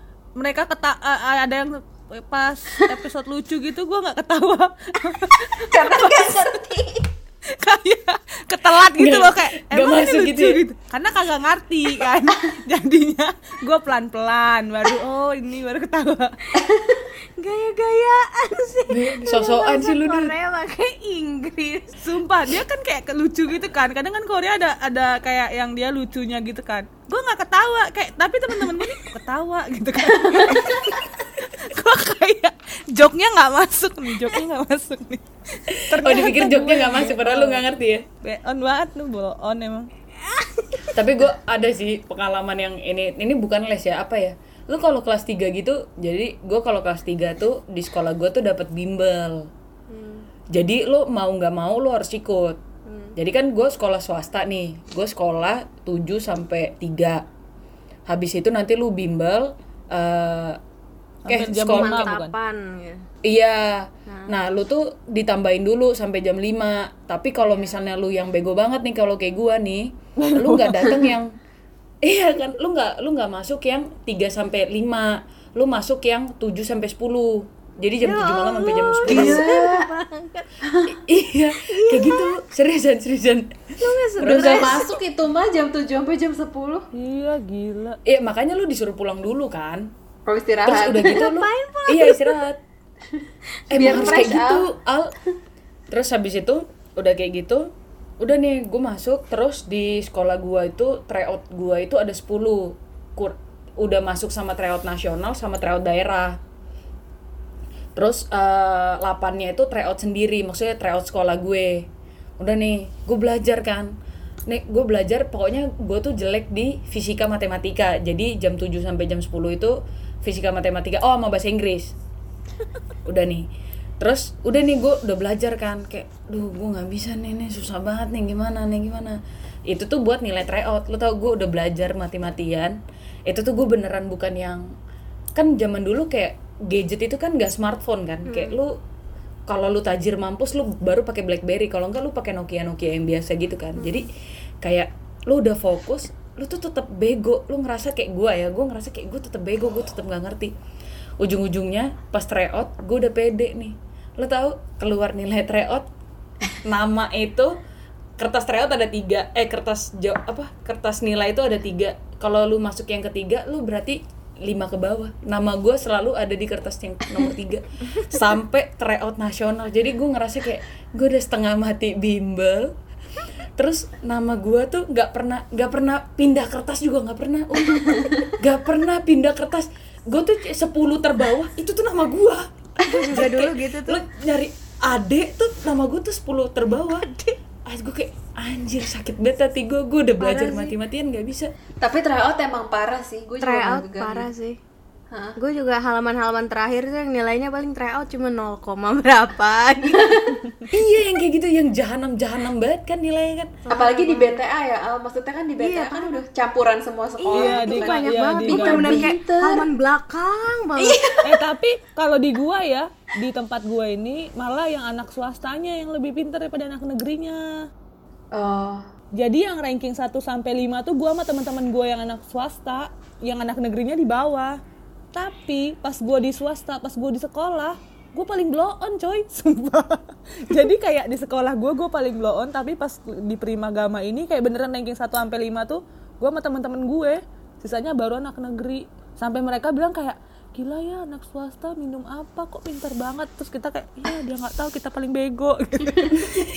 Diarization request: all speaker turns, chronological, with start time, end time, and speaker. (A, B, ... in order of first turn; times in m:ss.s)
0:00.4-0:06.3 A
0:05.5-0:07.1 B
0:07.5-0:16.4 A
0:08.9-0:10.6 C
0:16.6-0:17.1 B
0:17.4-0:21.9 D
0:18.9-0:20.3 C
0:22.0-0:30.8 A
0:30.1-0:30.9 B
0:31.6-0:35.3 A
0:35.9-0:37.6 A
0:36.0-0:38.0 C
0:38.2-0:39.9 A
0:40.2-0:40.9 D
0:40.9-0:49.5 C
0:49.9-0:50.3 D
0:50.5-0:52.6 C
0:52.9-0:53.2 D
0:53.2-0:57.2 C
0:58.1-1:00.6 C
1:01.2-1:02.3 A
1:01.3-1:02.1 C
1:01.7-1:03.0 D
1:03.2-1:11.3 C
1:04.1-1:04.4 D
1:07.5-1:07.8 D
1:10.2-1:11.0 A
1:12.0-1:19.5 C
1:18.0-1:20.5 D
1:19.1-1:19.9 B
1:20.6-1:21.0 B
1:20.9-1:24.8 C
1:21.6-1:22.4 D
1:23.8-1:25.0 D
1:24.2-1:26.9 B
1:26.9-1:28.0 A
1:28.1-1:29.9 C
1:30.3-1:31.2 B
1:30.6-1:32.6 C
1:31.0-1:32.4 D
1:33.7-1:34.4 D
1:33.7-1:35.1 C
1:33.7-1:34.7 B
1:35.9-1:37.7 C
1:38.2-1:46.4 C
1:48.0-1:51.9 C
1:52.4-1:53.9 C
1:54.5-2:01.9 C
2:03.1-2:03.5 C
2:04.0-2:14.6 C
2:15.4-2:18.8 C
2:18.3-2:18.6 D
2:19.5-2:24.1 C
2:23.8-2:24.1 D
2:24.6-2:30.5 C
2:31.2-2:35.9 C
2:36.6-2:37.6 C
2:38.2-2:52.7 C
2:53.6-3:07.1 C
2:57.8-2:58.3 B
3:02.8-3:04.0 D
3:07.0-3:07.3 D
3:07.7-3:11.5 C
3:10.2-3:10.7 D
3:11.8-3:14.3 B
3:13.4-3:14.6 D
3:15.1-3:15.4 B
3:15.4-3:20.2 D
3:19.9-3:20.3 B
3:20.7-3:23.6 C
3:23.6-3:24.4 D
3:23.7-3:29.7 B
3:25.6-3:26.2 D
3:27.2-3:31.1 D
3:27.3-3:29.1 A
3:30.8-3:31.3 B
3:31.2-3:37.4 A
3:38.3-3:38.9 B
3:39.2-3:44.6 A
3:45.1-4:06.3 A